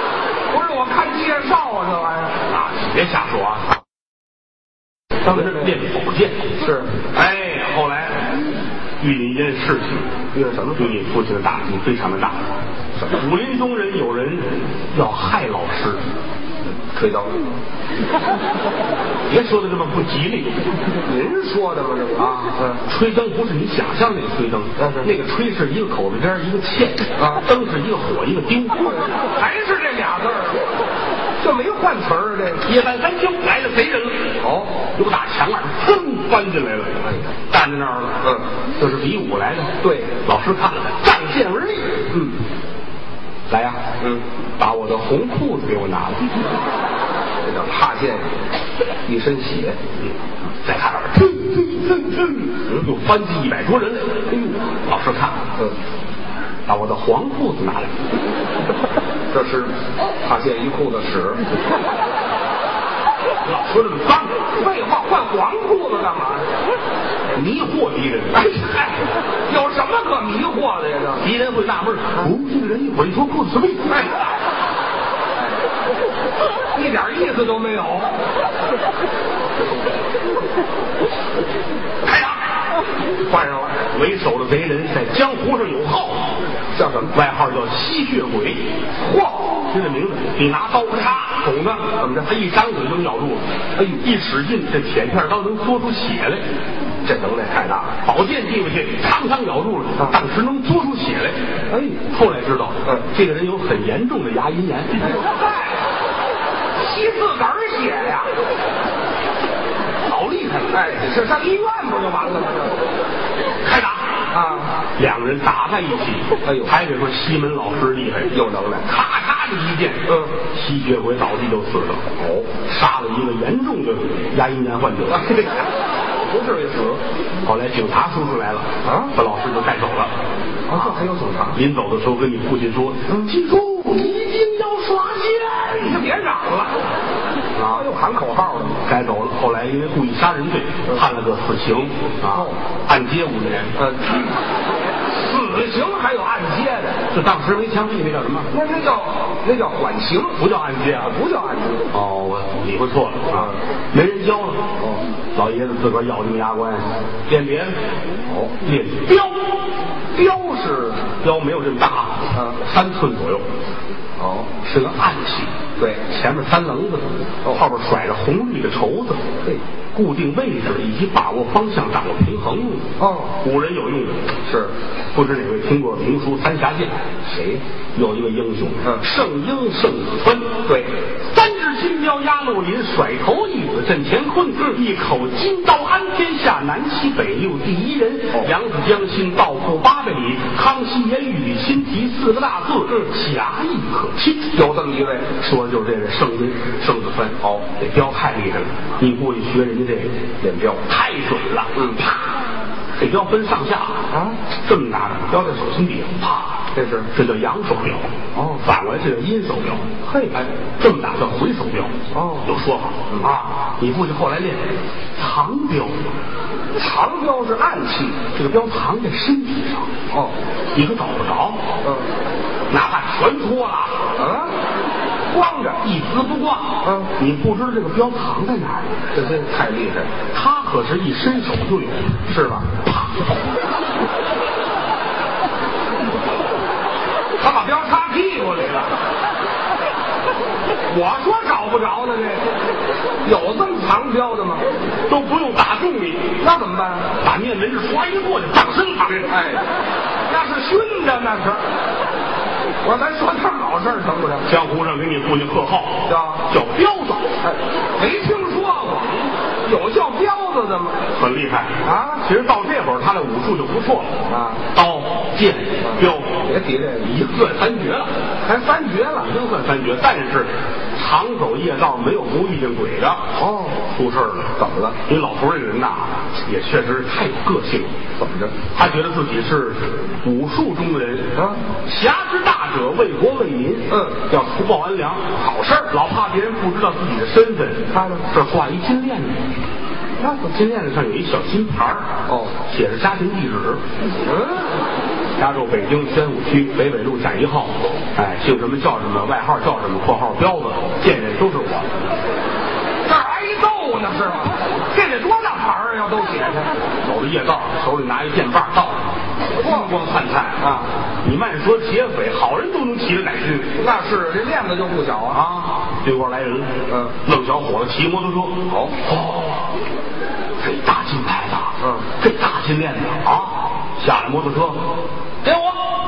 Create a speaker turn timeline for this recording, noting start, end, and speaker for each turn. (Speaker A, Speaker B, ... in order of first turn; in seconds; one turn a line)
Speaker A: 0.5-2.4
Speaker B: 2.5-3.8
Speaker B: 5.2-8.3
Speaker A: 5.2-5.8
Speaker A: 6.6-6.9
Speaker B: 9.0-10.1
Speaker A: 10.3-10.9
Speaker B: 10.8-12.4
Speaker B: 13.1-16.0
Speaker A: 16.9-17.4
Speaker B: 19.3-20.6
Speaker A: 21.1-22.8
Speaker B: 22.2-29.1
Speaker A: 24.8-25.1
Speaker A: 27.2-27.4
Speaker A: 28.9-30.7
Speaker A: 31.4-32.6
Speaker B: 32.6-34.4
Speaker A: 34.4-34.8
Speaker B: 34.9-38.2
Speaker B: 38.8-42.0
Speaker A: 39.8-40.1
Speaker A: 42.1-42.4
Speaker B: 43.5-43.9
Speaker B: 44.6-46.4
Speaker A: 47.4-48.3
Speaker A: 49.1-49.8
Speaker B: 50.6-55.4
Speaker B: 56.7-57.9
Speaker A: 59.3-61.5
Speaker B: 63.5-64.4
Speaker A: 64.5-66.5
Speaker B: 67.3-68.9
Speaker A: 69.5-71.2
Speaker B: 71.2-74.0
Speaker A: 73.9-74.4
Speaker A: 75.4-75.6
Speaker A: 76.7-78.2
Speaker B: 82.1-82.4
Speaker A: 83.2-83.8
Speaker B: 83.9-86.3
Speaker A: 86.7-87.1
Speaker B: 87.1-88.7
Speaker A: 89.0-89.6
Speaker B: 89.7-96.4
Speaker A: 92.0-92.3
Speaker A: 97.0-98.0
Speaker B: 98.0-101.4
Speaker A: 101.7-102.0
Speaker B: 102.1-105.2
Speaker A: 105.0-105.9
Speaker A: 106.8-108.3
Speaker B: 110.0-110.8
Speaker A: 110.7-112.9
Speaker B: 113.6-114.1
Speaker A: 114.3-114.8
Speaker B: 115.0-118.3
Speaker A: 116.4-116.7
Speaker A: 118.3-118.9
Speaker B: 118.9-122.0
Speaker A: 120.1-120.3
Speaker A: 122.2-122.5
Speaker B: 122.7-125.6
Speaker A: 125.1-127.0
Speaker B: 127.4-130.1
Speaker A: 128.8-129.1
Speaker A: 130.7-131.6
Speaker B: 131.5-136.0
Speaker A: 133.1-133.3
Speaker A: 135.8-136.8
Speaker B: 137.6-137.9
Speaker A: 137.7-138.8
Speaker B: 138.8-143.8
Speaker A: 142.3-142.6
Speaker A: 143.8-144.4
Speaker A: 145.0-147.0
Speaker B: 147.1-148.5
Speaker A: 148.5-150.4
Speaker B: 150.4-151.2
Speaker A: 150.9-151.9
Speaker B: 151.9-154.7
Speaker A: 153.3-153.6
Speaker B: 155.3-157.8
Speaker A: 158.3-158.5
Speaker B: 158.6-159.4
Speaker A: 160.1-161.1
Speaker B: 161.2-163.5
Speaker A: 162.3-162.6
Speaker A: 164.2-164.5
Speaker B: 164.6-165.5
Speaker A: 165.8-166.0
Speaker B: 166.1-169.3
Speaker B: 169.9-172.9
Speaker A: 173.0-173.4
Speaker B: 173.4-174.3
Speaker A: 174.5-174.7
Speaker B: 175.1-176.9
Speaker A: 177.2-177.6
Speaker B: 177.9-180.7
Speaker A: 180.7-180.9
Speaker B: 181.3-194.5
Speaker A: 194.5-195.3
Speaker B: 195.4-200.2
Speaker A: 200.4-200.8
Speaker B: 200.9-202.1
Speaker A: 201.8-202.0
Speaker B: 203.0-204.0
Speaker A: 204.1-204.4
Speaker B: 204.6-209.9
Speaker A: 206.7-207.1
Speaker A: 208.3-208.6
Speaker A: 210.0-210.5
Speaker B: 210.8-216.0
Speaker A: 212.1-212.5
Speaker A: 216.8-218.2
Speaker B: 218.3-219.9
Speaker B: 220.7-221.6
Speaker A: 221.8-222.1
Speaker B: 222.7-224.0
Speaker A: 224.2-224.5
Speaker A: 225.3-225.8
Speaker B: 225.8-228.9
Speaker A: 226.8-227.1
Speaker A: 229.1-230.1
Speaker B: 230.3-233.3
Speaker A: 232.3-232.7
Speaker A: 237.4-239.0
Speaker A: 240.9-242.5
Speaker A: 243.2-244.7
Speaker B: 245.1-246.3
Speaker A: 246.4-247.1
Speaker B: 247.2-249.4
Speaker A: 249.3-249.7
Speaker A: 250.3-251.6
Speaker A: 252.8-254.5
Speaker B: 254.4-257.4
Speaker A: 256.1-256.5
Speaker A: 257.4-261.0
Speaker B: 261.1-264.2
Speaker A: 261.8-262.2
Speaker A: 264.3-264.7
Speaker B: 264.7-266.4
Speaker A: 265.8-267.3
Speaker B: 267.0-268.1
Speaker A: 268.4-269.3
Speaker B: 269.2-273.3
Speaker A: 273.4-273.8
Speaker B: 273.9-277.9
Speaker A: 274.6-275.0
Speaker A: 278.2-278.6
Speaker B: 278.7-289.4
Speaker A: 281.4-281.6
Speaker A: 283.9-284.2
Speaker A: 285.4-285.9
Speaker A: 287.9-288.2
Speaker A: 290.2-290.5
Speaker B: 290.5-293.8
Speaker A: 292.3-292.5
Speaker A: 294.2-294.8
Speaker B: 295.4-301.9
Speaker A: 303.1-306.7
Speaker B: 307.0-309.0
Speaker A: 309.6-309.9
Speaker B: 309.6-310.7
Speaker A: 310.6-310.9
Speaker B: 311.2-313.8
Speaker A: 313.8-315.4
Speaker B: 315.3-319.6
Speaker A: 316.9-317.2
Speaker A: 318.7-319.0
Speaker B: 320.6-324.9
Speaker A: 321.8-322.1
Speaker B: 325.4-325.7